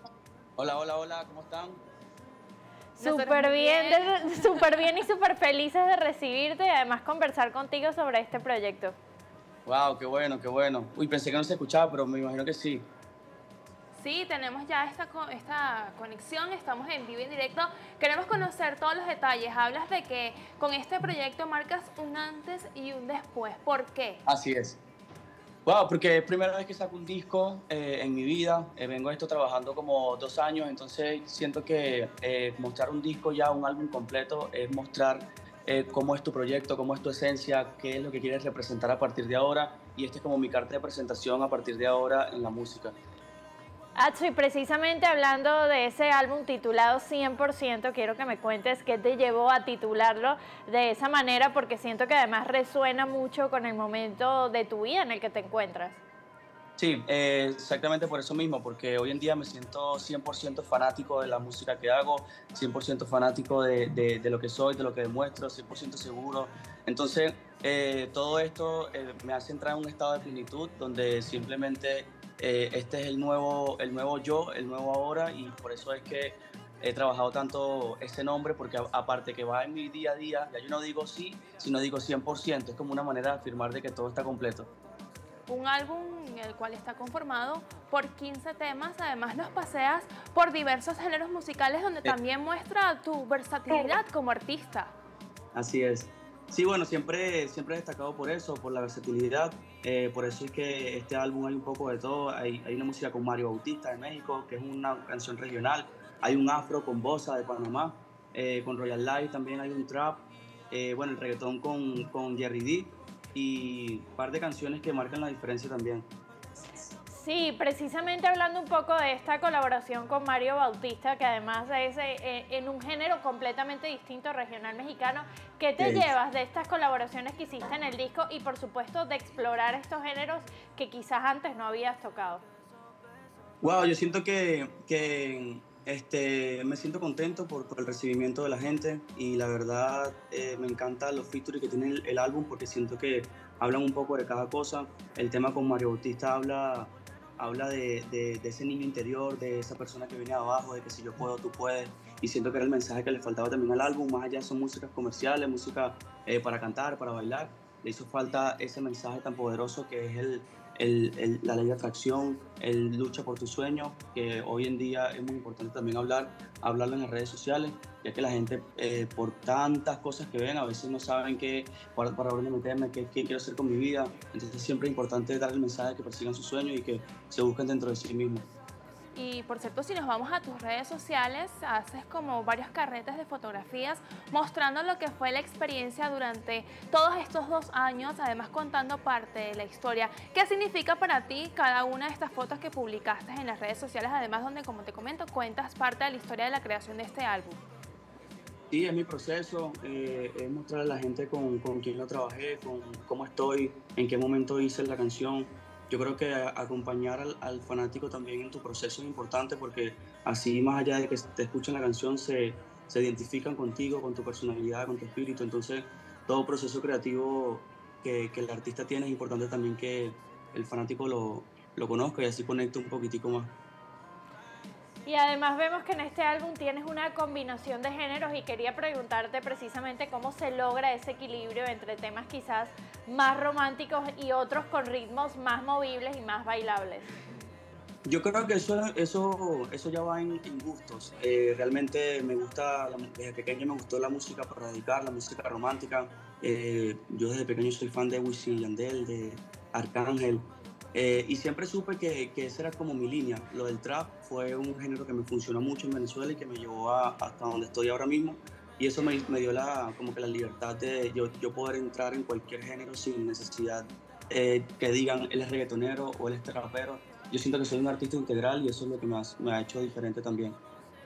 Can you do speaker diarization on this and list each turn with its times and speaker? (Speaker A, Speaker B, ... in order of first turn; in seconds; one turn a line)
Speaker A: 0.6-1.8
Speaker B: 3.0-8.9
Speaker C: 3.0-4.9
Speaker A: 9.7-12.8
Speaker C: 13.9-24.2
Speaker A: 24.2-24.8
Speaker A: 25.6-42.9
Speaker B: 44.0-56.0
Speaker A: 56.8-84.7
Speaker C: 85.5-94.9
Speaker A: 95.5-116.1
Speaker B: 117.1-132.4
Speaker A: 125.8-126.1
Speaker A: 133.6-178.4
Speaker C: 179.1-197.6
Speaker A: 198.7-223.5
Speaker B: 225.1-237.1
Speaker A: 238.1-270.6